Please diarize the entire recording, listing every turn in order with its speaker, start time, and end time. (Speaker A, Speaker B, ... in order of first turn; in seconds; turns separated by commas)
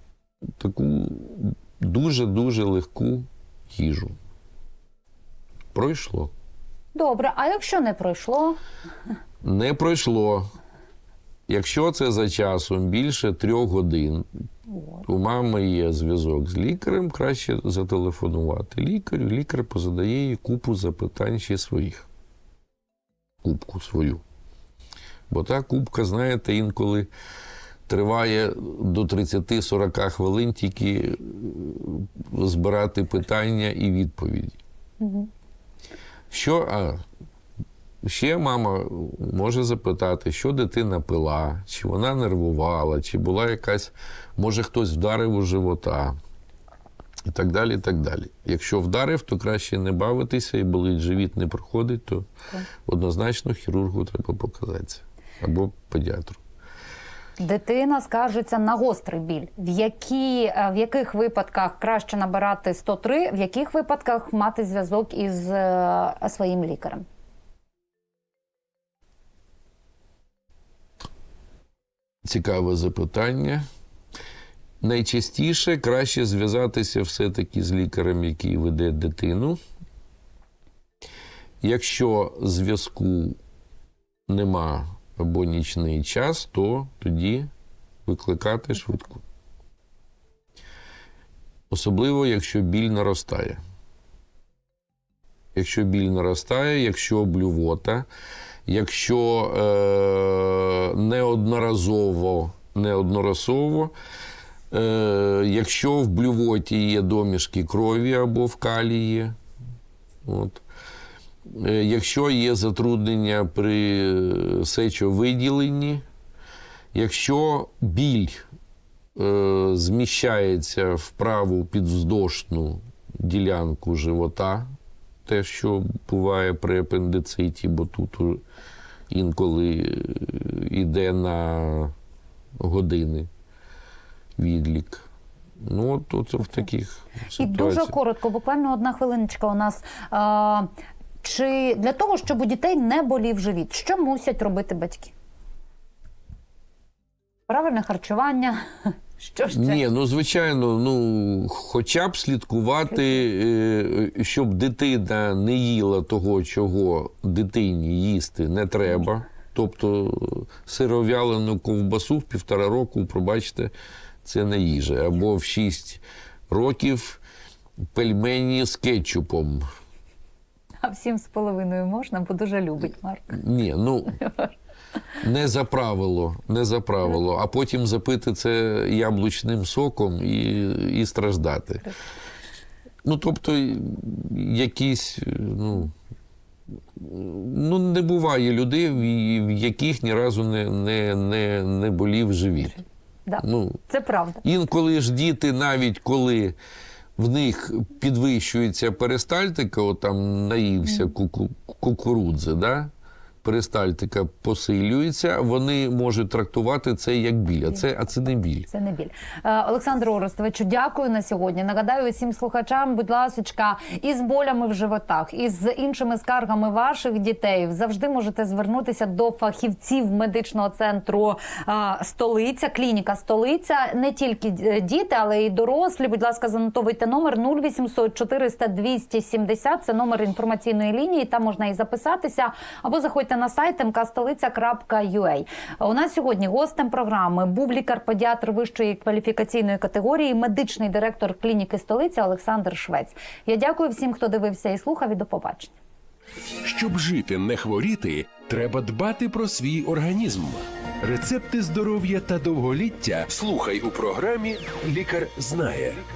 Speaker A: 0.6-4.2, Speaker A: 5.7-6.3, Speaker B: 6.9-8.6, Speaker A: 9.4-10.5, Speaker A: 11.5-14.2, Speaker B: 14.7-15.0, Speaker A: 15.1-22.1, Speaker A: 23.4-24.2, Speaker A: 25.3-27.1, Speaker A: 27.9-34.6, Speaker B: 35.0-35.3, Speaker A: 36.3-37.0, Speaker A: 38.0-46.1, Speaker A: 47.3-52.3, Speaker A: 52.9-56.4, Speaker B: 57.4-67.0, Speaker A: 72.2-73.7, Speaker A: 74.8-79.6, Speaker A: 81.6-83.4, Speaker A: 84.3-87.5, Speaker A: 88.0-89.2, Speaker A: 91.7-93.6, Speaker A: 95.5-98.1, Speaker A: 98.7-103.9, Speaker A: 104.7-109.4, Speaker A: 110.2-110.6, Speaker A: 111.5-116.0, Speaker A: 116.9-118.4, Speaker A: 119.2-124.7, Speaker A: 125.2-128.4, Speaker A: 129.1-131.9, Speaker A: 132.6-133.3, Speaker A: 134.4-135.1, Speaker A: 135.6-137.9, Speaker B: 137.4-140.7, Speaker B: 141.2-145.1, Speaker B: 147.5-149.8, Speaker A: 149.5-163.7, Speaker A: 164.2-167.2, Speaker A: 167.9-169.6, Speaker B: 170.8-173.4, Speaker A: 173.3-174.2, Speaker B: 174.2-174.5, Speaker A: 175.2-181.9, Speaker A: 183.0-185.9, Speaker A: 186.9-192.8, Speaker B: 193.3-194.4, Speaker A: 193.4-193.8, Speaker A: 194.4-196.6, Speaker A: 197.2-202.9, Speaker A: 203.4-208.7, Speaker B: 208.7-245.7, Speaker C: 246.6-256.0